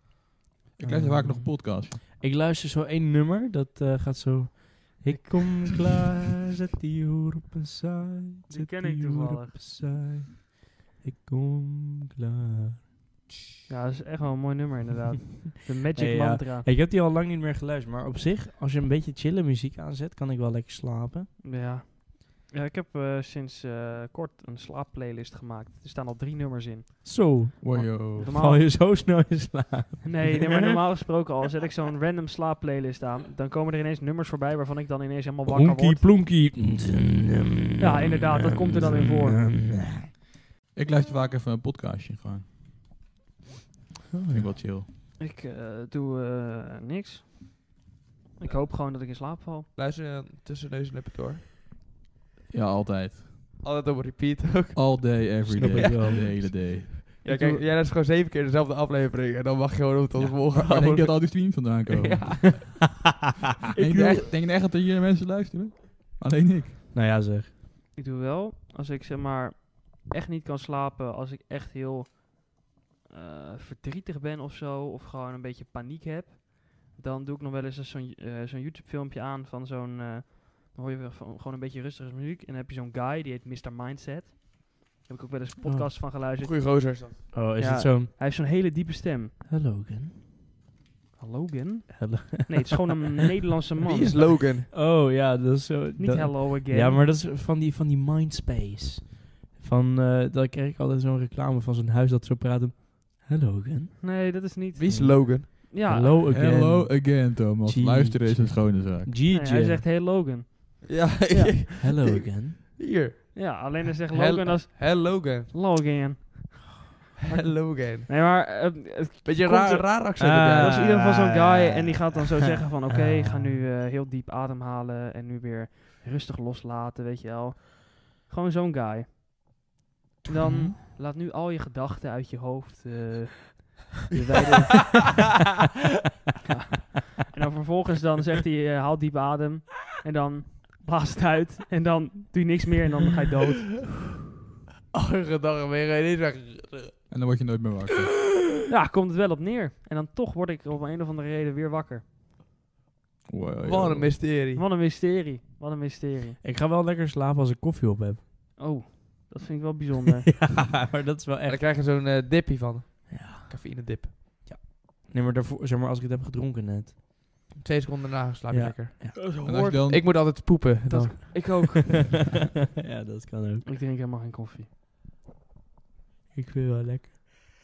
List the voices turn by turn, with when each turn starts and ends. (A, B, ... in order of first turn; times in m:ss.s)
0:00.8-0:02.0 A
0:00.8-0:12.8 B
0:05.1-0:05.4 C
0:08.5-0:09.6 C
0:13.7-0:16.7 C
0:15.9-0:21.3 B
0:21.4-0:28.7 C
0:27.0-0:30.4 B
0:27.6-0:28.3 A
0:30.0-0:36.1 C
0:35.4-0:40.0 B
0:37.8-0:39.5 C
0:40.7-0:42.5 A
0:44.1-0:44.6 B
0:44.3-0:44.9 A
0:45.2-0:47.3 C
0:48.4-0:49.7 C
0:49.7-0:51.4 D
0:52.5-0:53.3 A
0:53.6-1:02.7 D
0:54.7-0:57.2 A
0:55.4-0:56.5 B
0:57.2-0:57.6 C
1:00.1-1:02.7 A
1:03.7-1:06.8 A
1:03.8-1:04.2 D
1:06.9-1:07.5 B
1:08.0-1:26.5 C
1:25.6-1:25.9 B
1:26.4-1:27.2 D
1:27.3-1:28.1 B
1:27.6-1:29.3 C
1:29.5-1:30.2 B
1:31.2-1:34.3 C
1:31.9-1:32.8 B
1:33.8-1:34.7 D
1:34.7-1:44.0 B
1:36.0-1:37.0 C
1:44.0-1:46.2 C
1:44.8-1:45.5 D
1:44.8-1:49.8 B
1:46.3-1:49.1 A
1:49.3-1:51.6 C
1:50.9-1:55.5 D
1:51.8-1:52.6 B
1:53.3-1:56.8 C
1:57.3-2:09.1 C
1:57.3-1:58.1 D
1:59.2-2:01.2 D
2:00.2-2:01.6 B
2:03.1-2:03.6 B
2:10.3-2:15.0 C
2:16.4-2:23.8 C
2:24.9-2:27.0 D
2:27.1-2:28.1 A
2:28.7-2:32.0 C
2:33.3-2:34.1 A
2:33.6-2:34.6 D
2:34.5-2:36.4 C
2:36.4-2:38.2 B
2:38.6-2:40.2 C
2:40.3-2:41.6 B
2:41.4-2:44.1 D
2:43.1-2:47.0 B
2:47.6-2:48.9 D
2:48.5-2:49.3 B
2:49.2-2:52.1 C
2:49.4-2:50.0 A
2:49.9-2:51.3 D
2:51.3-2:51.8 B
2:52.8-2:53.6 B
2:53.6-2:54.7 C
2:56.3-2:57.4 B